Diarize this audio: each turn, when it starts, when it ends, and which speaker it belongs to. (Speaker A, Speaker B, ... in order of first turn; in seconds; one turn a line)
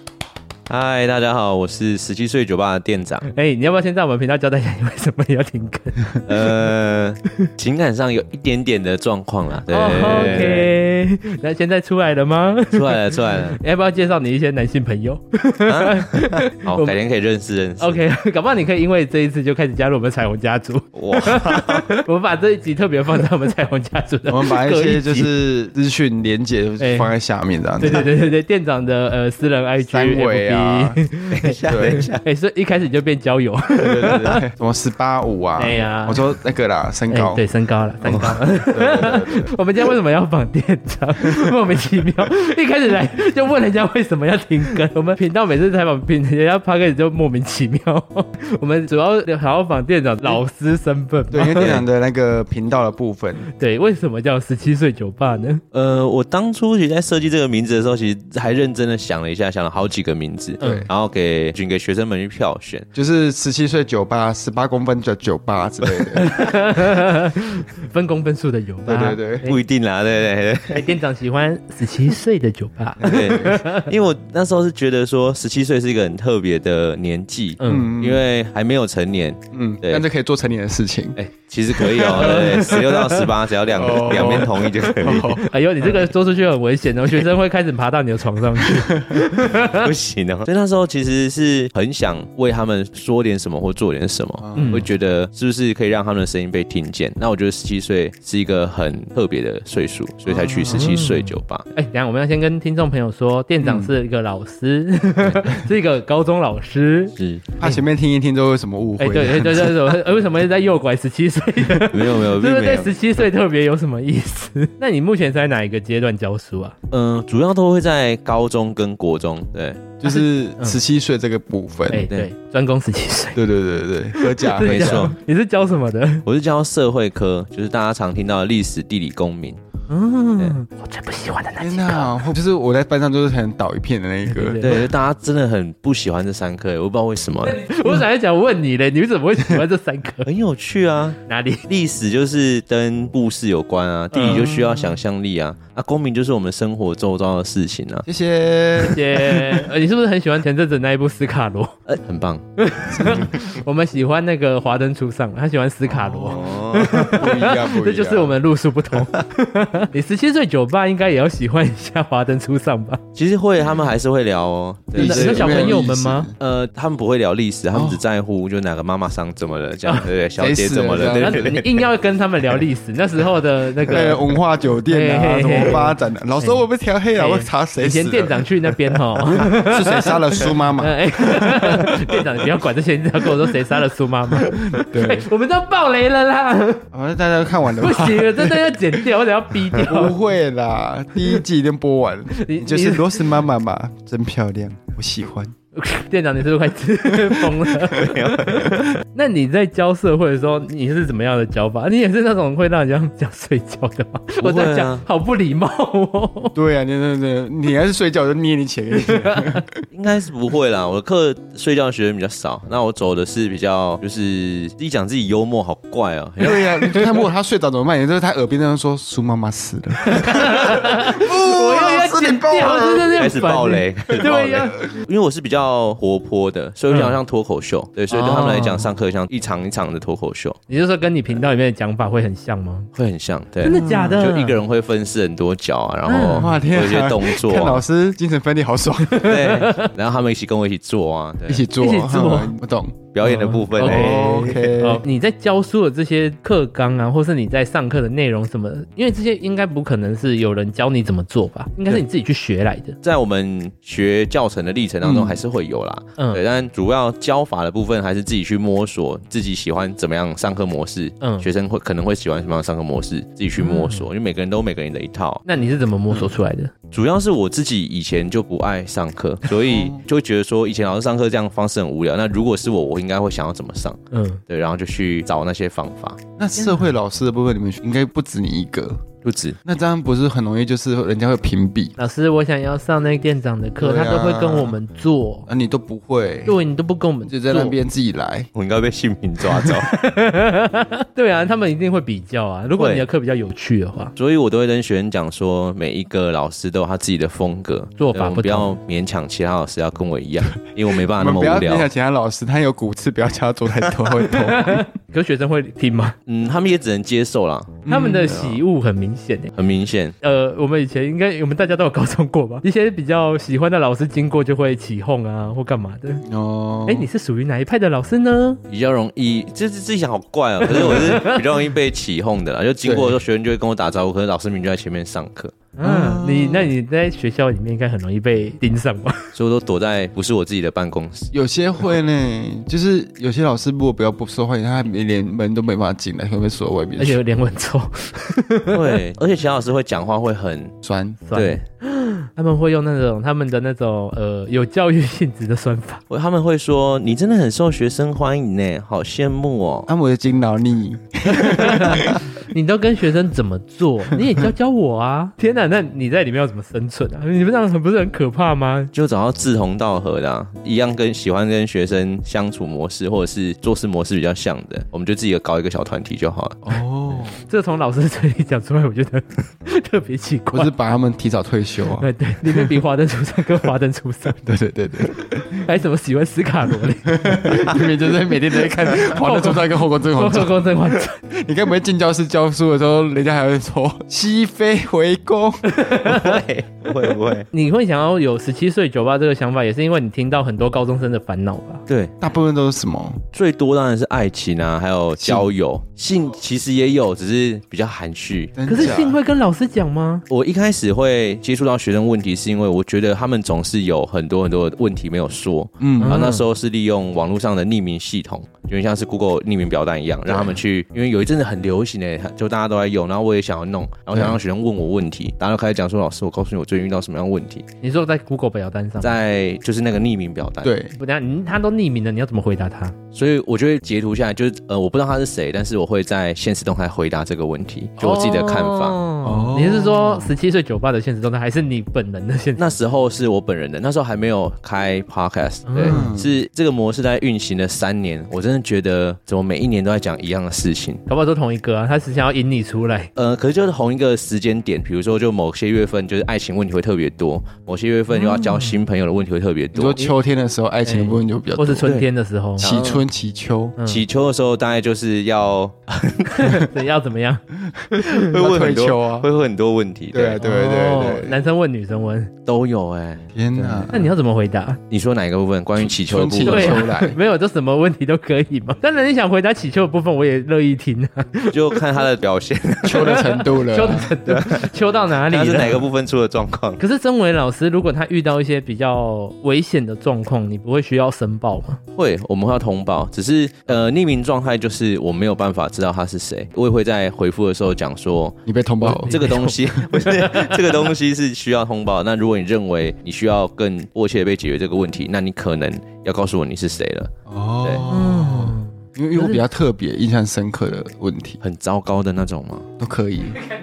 Speaker A: 0.7-3.3
Speaker B: 3.3-6.2
Speaker A: 6.2-10.7
Speaker B: 9.7-16.9
Speaker C: 10.3-10.6
Speaker A: 12.7-13.6
Speaker A: 15.7-18.0
Speaker B: 17.8-25.1
Speaker A: 20.9-21.9
Speaker C: 24.3-28.1
Speaker B: 26.8-27.1
Speaker B: 27.8-34.4
Speaker C: 29.8-31.0
Speaker A: 31.3-32.2
Speaker C: 31.7-32.0
Speaker A: 33.8-34.4
Speaker C: 33.8-37.4
Speaker B: 35.6-36.2
Speaker B: 37.1-51.8
Speaker C: 38.0-39.5
Speaker A: 38.0-38.4
Speaker C: 41.3-41.5
Speaker C: 51.3-53.5
Speaker A: 51.6-51.8
Speaker B: 53.5-55.6
Speaker A: 55.7-62.9
Speaker B: 60.6-60.9
Speaker C: 60.6-60.9
Speaker C: 62.9-66.3
Speaker B: 66.2-69.6
Speaker C: 68.8-69.5
Speaker A: 69.4-71.0
Speaker B: 70.7-73.9
Speaker C: 73.0-73.6
Speaker A: 73.0-80.0
Speaker B: 77.6-77.9
Speaker C: 77.6-78.2
Speaker C: 79.5-81.2
Speaker A: 81.2-85.4
Speaker C: 81.7-85.5
Speaker B: 85.2-89.9
Speaker C: 88.6-89.2
Speaker A: 89.3-101.7
Speaker C: 94.4-94.8
Speaker B: 94.5-94.9
Speaker C: 100.3-101.1
Speaker B: 100.7-107.8
Speaker C: 103.6-103.9
Speaker A: 107.2-107.5
Speaker C: 107.6-110.0
Speaker B: 109.0-116.8
Speaker A: 111.9-112.9
Speaker A: 116.9-119.8
Speaker C: 120.0-122.1
Speaker B: 120.0-120.8
Speaker B: 121.9-123.4
Speaker A: 122.0-122.3
Speaker C: 123.3-125.1
Speaker B: 124.1-126.2
Speaker A: 124.6-125.2
Speaker A: 126.2-129.6
Speaker B: 129.9-132.2
Speaker C: 131.6-134.6
Speaker B: 134.3-134.9
Speaker A: 134.6-137.6
Speaker B: 137.4-140.3
Speaker A: 140.2-148.1
Speaker B: 141.3-141.7
Speaker B: 144.1-144.5
Speaker C: 144.1-145.0
Speaker C: 148.1-149.5
Speaker B: 148.8-151.8
Speaker A: 151.9-152.4
Speaker B: 152.6-163.0
Speaker C: 152.9-153.4
Speaker C: 155.8-158.4
Speaker A: 156.2-157.2
Speaker A: 163.2-165.8
Speaker C: 164.9-166.3
Speaker B: 165.0-166.3
Speaker A: 166.4-171.7
Speaker C: 167.7-168.0
Speaker C: 170.4-171.6
Speaker B: 171.1-174.3
Speaker C: 173.9-182.3
Speaker B: 174.9-176.6
Speaker B: 177.2-186.8
Speaker C: 184.4-185.3
Speaker C: 186.9-189.0
Speaker B: 187.7-190.2
Speaker C: 189.7-195.6
Speaker B: 192.4-193.3
Speaker B: 195.8-206.5
Speaker C: 197.1-197.7
Speaker A: 197.9-198.8
Speaker A: 204.4-205.0
Speaker C: 206.5-209.8
Speaker B: 209.0-209.6
Speaker A: 209.9-217.0
Speaker C: 216.4-223.3
Speaker B: 220.1-224.8
Speaker A: 223.2-230.6
Speaker C: 224.2-225.0
Speaker B: 228.1-228.9
Speaker B: 230.7-232.9
Speaker A: 232.9-237.8
Speaker B: 233.6-234.6
Speaker C: 233.7-234.4
Speaker B: 236.1-236.6
Speaker C: 236.3-239.5
Speaker A: 239.2-241.7
Speaker B: 239.3-239.9
Speaker C: 241.5-243.0
Speaker B: 241.8-242.6
Speaker A: 243.1-244.6
Speaker B: 243.2-253.0
Speaker C: 243.8-245.0
Speaker A: 253.0-265.4
Speaker C: 255.0-255.4
Speaker B: 256.2-256.4
Speaker B: 261.2-261.5
Speaker B: 263.6-264.1
Speaker B: 265.5-266.7
Speaker A: 266.9-276.2
Speaker C: 269.6-270.0
Speaker B: 274.1-274.4
Speaker C: 276.4-279.0
Speaker B: 276.6-276.9
Speaker A: 279.2-279.6
Speaker C: 279.6-282.0
Speaker B: 282.0-285.5
Speaker C: 283.8-284.8
Speaker C: 285.5-286.6
Speaker B: 286.5-287.8
Speaker C: 287.3-288.5
Speaker A: 288.5-289.9
Speaker B: 289.5-294.1
Speaker A: 292.8-293.1
Speaker A: 294.2-301.9
Speaker B: 298.0-298.8
Speaker C: 300.9-304.9
Speaker B: 304.4-306.2
Speaker A: 306.3-308.4
Speaker C: 307.9-308.6
Speaker B: 307.9-309.5
Speaker A: 309.5-310.1
Speaker B: 310.2-316.2
Speaker C: 316.3-317.1
Speaker B: 316.9-318.6
Speaker A: 318.7-325.6
Speaker B: 320.7-321.6
Speaker C: 320.7-321.1
Speaker C: 322.8-323.2
Speaker B: 325.8-329.3
Speaker C: 325.8-326.7
Speaker A: 329.3-331.3
Speaker C: 331.3-337.2
Speaker B: 337.0-339.0
Speaker A: 338.7-340.8
Speaker C: 340.8-341.2
Speaker B: 341.3-346.0
Speaker A: 341.3-341.6
Speaker A: 346.1-349.9
Speaker C: 349.9-352.2
Speaker B: 351.3-358.9
Speaker A: 358.9-366.8
Speaker C: 366.6-367.4
Speaker B: 367.5-370.7
Speaker C: 370.5-372.7
Speaker B: 372.0-374.4
Speaker C: 374.4-375.6
Speaker B: 375.6-377.8
Speaker C: 377.1-385.7
Speaker B: 378.9-381.2
Speaker B: 385.7-386.4
Speaker A: 386.0-387.5
Speaker B: 387.5-391.8
Speaker A: 391.9-392.1
Speaker C: 392.2-393.2
Speaker A: 393.3-399.0
Speaker C: 395.2-395.5
Speaker C: 398.6-399.2
Speaker B: 398.7-400.3
Speaker A: 400.3-417.7
Speaker C: 405.8-406.4
Speaker C: 410.3-410.6
Speaker C: 414.1-414.4
Speaker B: 417.8-419.2
Speaker A: 419.0-420.7
Speaker C: 420.6-421.0
Speaker B: 421.0-423.0
Speaker A: 423.1-429.0
Speaker B: 428.0-432.8
Speaker C: 429.2-430.3
Speaker A: 432.6-441.0
Speaker B: 435.7-436.1
Speaker C: 435.9-436.3
Speaker B: 441.1-443.1
Speaker A: 443.1-450.0
Speaker B: 448.1-448.8
Speaker C: 449.7-451.9
Speaker B: 450.9-452.7
Speaker C: 452.6-453.8
Speaker A: 452.6-453.0
Speaker B: 453.8-454.1
Speaker A: 453.9-456.6
Speaker B: 456.3-458.3
Speaker C: 457.7-459.3
Speaker A: 458.1-460.4
Speaker C: 460.1-461.4
Speaker B: 460.4-462.3
Speaker A: 462.5-463.9
Speaker C: 463.3-464.1
Speaker B: 463.9-464.8
Speaker A: 464.9-466.9
Speaker C: 465.8-467.2
Speaker B: 466.4-471.8
Speaker A: 471.5-473.3
Speaker C: 472.8-474.2
Speaker B: 472.9-475.9
Speaker A: 474.2-474.7
Speaker A: 475.2-476.8
Speaker B: 476.8-481.8
Speaker A: 481.9-497.8
Speaker C: 488.5-489.4
Speaker B: 489.1-490.8
Speaker C: 497.3-501.4
Speaker B: 497.9-499.4
Speaker A: 501.4-502.7
Speaker C: 502.8-503.4